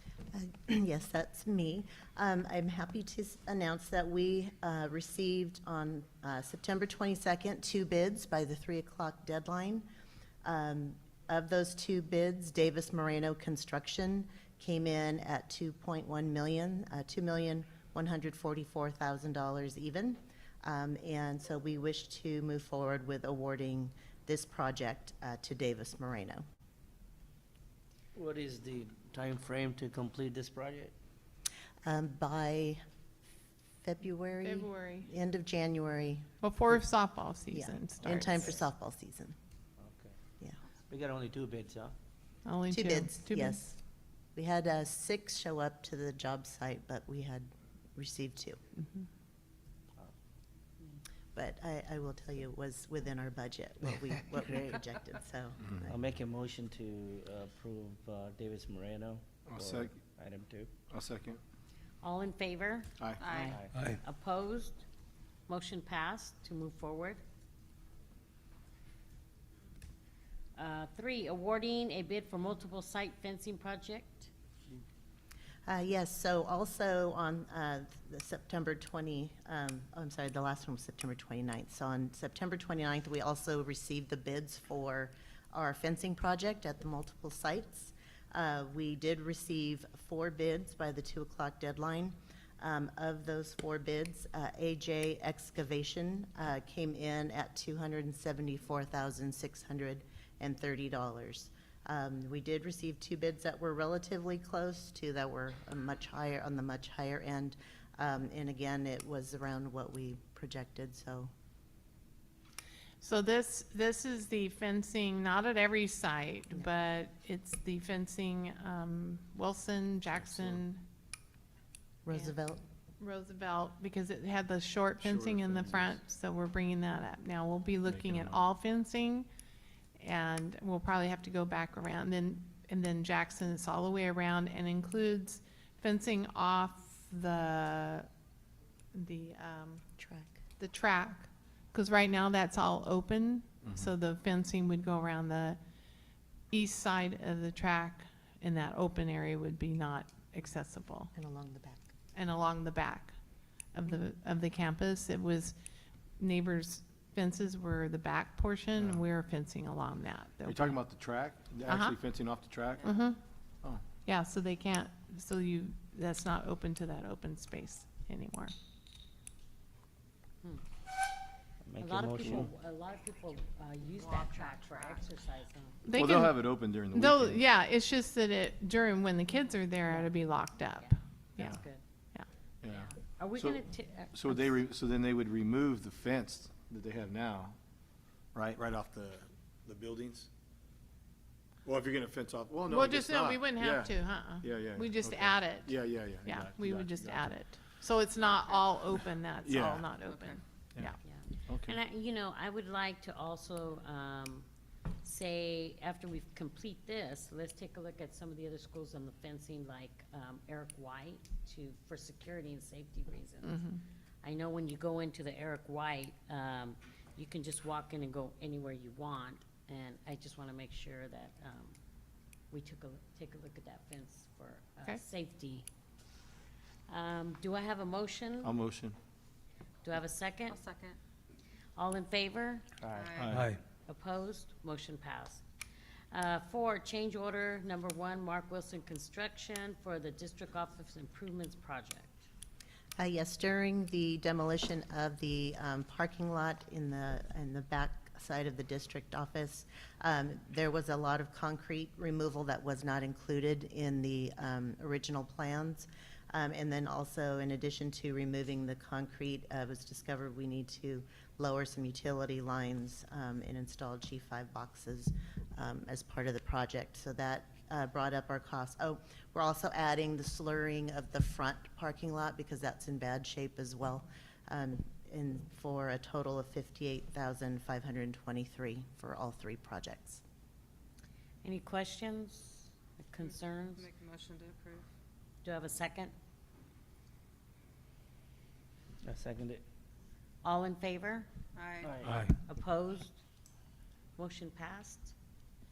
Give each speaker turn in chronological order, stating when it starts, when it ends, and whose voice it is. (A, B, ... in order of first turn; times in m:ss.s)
0:00.3-0:09.8 A
0:10.4-0:26.4 A
0:28.2-0:30.9 B
0:31.8-0:32.8 A
0:33.8-0:36.3 A
0:34.4-0:35.1 C
0:36.4-0:38.5 C
0:37.5-0:39.4 A
0:39.8-0:40.2 B
0:40.9-0:42.0 B
0:42.4-0:43.6 C
0:42.7-0:43.8 A
0:44.4-0:48.6 A
0:51.4-0:56.0 A
0:55.9-1:00.7 B
0:59.5-1:00.0 D
1:00.9-1:01.4 D
1:02.0-1:04.8 E
1:03.2-1:03.6 F
1:03.5-1:03.8 B
1:05.5-1:07.2 E
1:10.6-1:14.3 E
1:15.7-1:51.3 A
1:53.0-2:00.8 C
2:00.2-2:00.6 D
2:02.0-2:02.6 A
2:03.0-2:09.3 C
2:05.0-2:06.0 D
2:07.8-2:08.4 D
2:10.0-2:18.1 C
2:18.9-2:19.8 C
2:20.0-2:20.4 A
2:20.6-2:25.6 C
2:23.6-2:23.9 D
2:26.5-2:31.1 C
2:31.2-2:31.9 A
2:32.1-2:33.2 C
2:33.8-2:35.6 C
2:36.2-2:40.8 C
2:38.8-2:39.0 D
2:40.5-2:42.9 D
2:41.7-2:42.0 C
2:42.8-2:43.1 F
2:42.8-2:43.2 C
2:44.0-2:48.5 C
2:51.6-2:52.5 B
2:51.8-2:55.9 E
2:54.0-2:55.0 F
2:55.9-2:57.4 D
2:55.9-3:01.6 C
2:59.9-3:00.1 E
3:00.8-3:01.8 E
3:02.6-3:07.6 D
3:02.7-3:04.5 E
3:08.3-3:10.3 D
3:11.7-3:17.3 D
3:12.7-3:21.0 C
3:18.2-3:18.7 F
3:19.4-3:19.9 D
3:20.0-3:20.4 F
3:21.0-3:24.5 E
3:21.5-3:21.8 D
3:25.0-3:33.6 E
3:33.4-3:33.8 C
3:34.2-3:41.8 E
3:42.5-3:45.7 E
3:46.9-3:48.5 E
3:48.4-3:49.0 D
3:49.8-3:50.6 E
3:50.5-3:51.0 F
3:51.8-3:52.7 E
3:52.8-3:53.2 B
3:52.9-3:53.4 F
3:53.2-3:53.5 D
3:53.9-3:55.4 E
3:56.1-4:02.3 E
4:03.0-4:40.2 A
4:41.4-4:43.9 E
4:43.2-4:44.9 F
4:45.4-4:46.1 E
4:49.0-4:49.6 B
4:50.4-4:51.3 E
4:51.6-4:52.1 F
4:51.8-4:52.2 B
4:52.4-4:53.2 E
4:54.2-4:55.1 E